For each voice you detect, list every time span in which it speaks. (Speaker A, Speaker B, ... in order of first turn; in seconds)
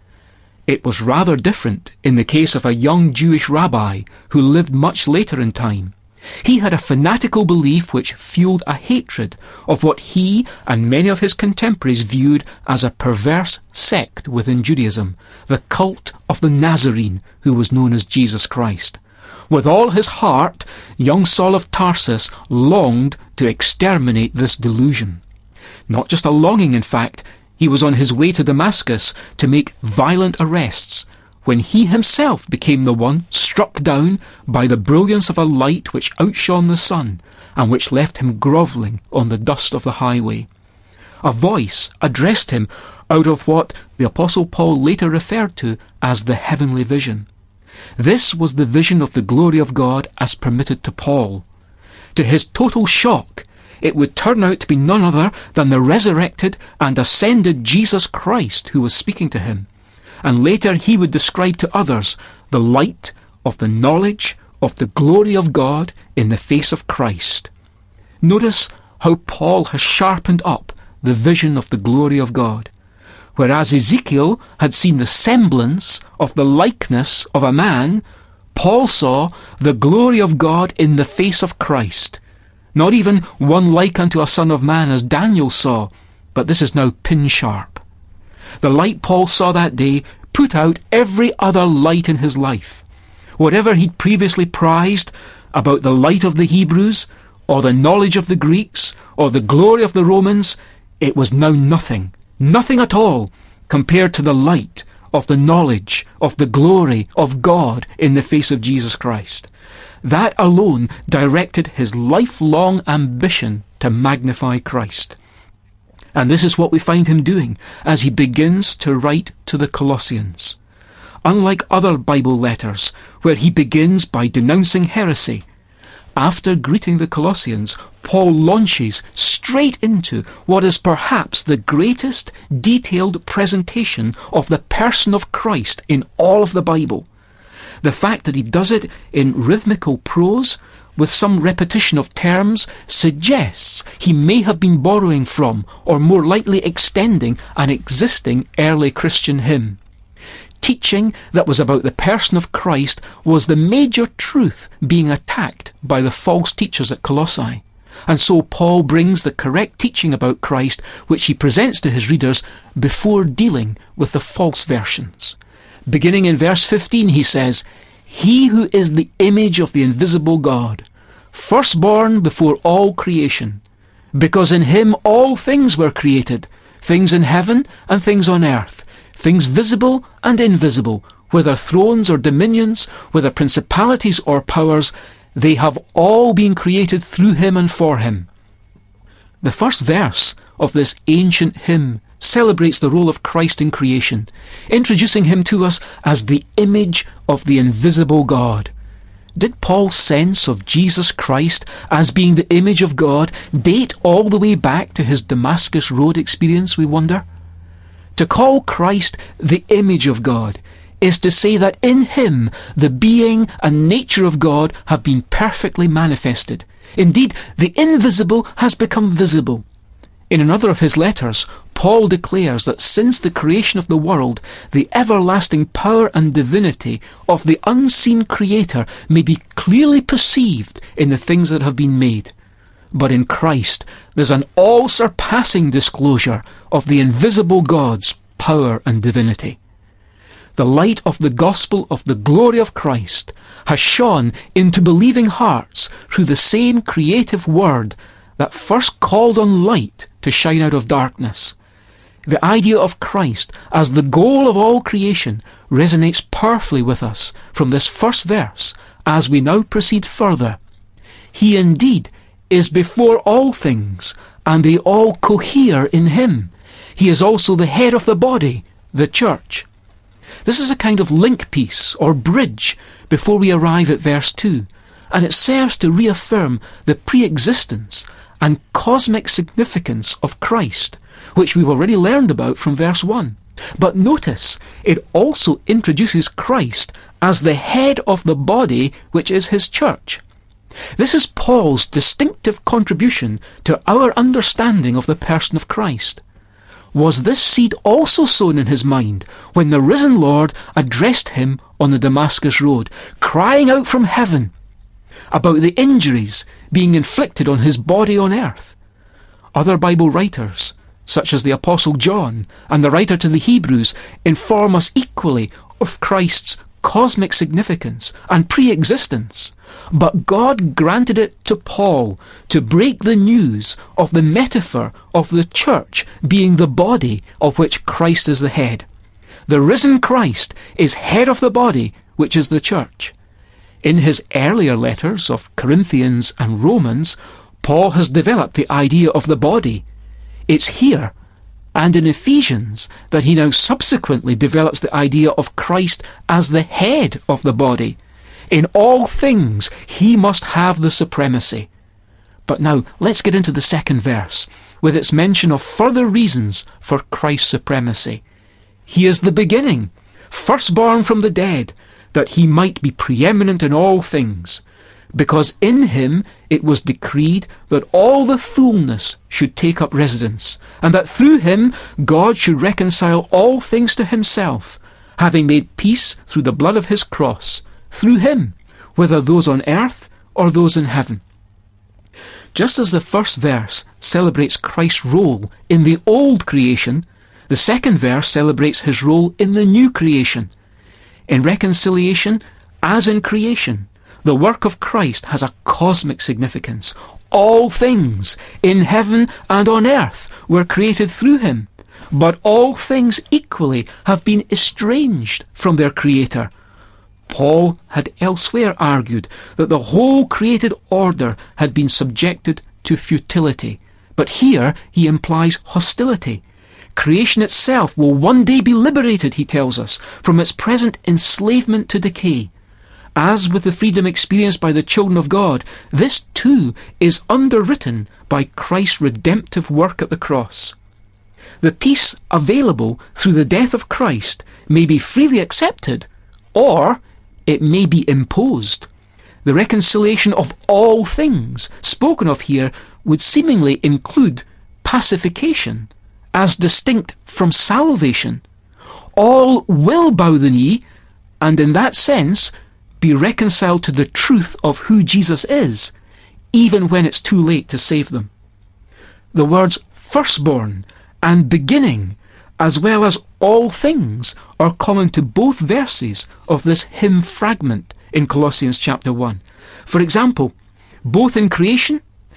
Speaker A: 0.7-25.2, 25.9-40.5, 41.2-47.3, 48.0-51.4, 52.1-59.7, 60.2-67.5, 68.2-72.7, 73.3-82.2, 82.7-87.8, 88.6-92.8, 93.4-109.5, 110.0-115.2, 116.1-120.6, 121.2-125.4, 126.2-137.1, 137.8-149.8, 150.6-165.3, 165.9-173.6, 174.1-188.3, 189.4-198.7, 199.3-207.2, 208.2-219.6, 220.3-232.3, 232.9-239.6, 240.6-251.5, 252.2-260.6, 261.3-269.7, 270.4-290.2, 291.0-296.2, 296.9-304.5, 305.3-308.8, 309.5-328.9, 329.5-333.1, 333.8-339.8, 340.5-341.1, 341.7-348.0, 348.5-351.7, 352.5-358.2, 358.9-364.6, 365.1-381.2, 382.5-390.5, 391.3-406.5, 407.3-416.4, 416.9-422.5, 423.1-430.8, 431.6-438.9, 439.4-448.4, 449.1-450.8, 451.4-455.9, 456.5-458.3, 459.3-470.5, 471.0-472.0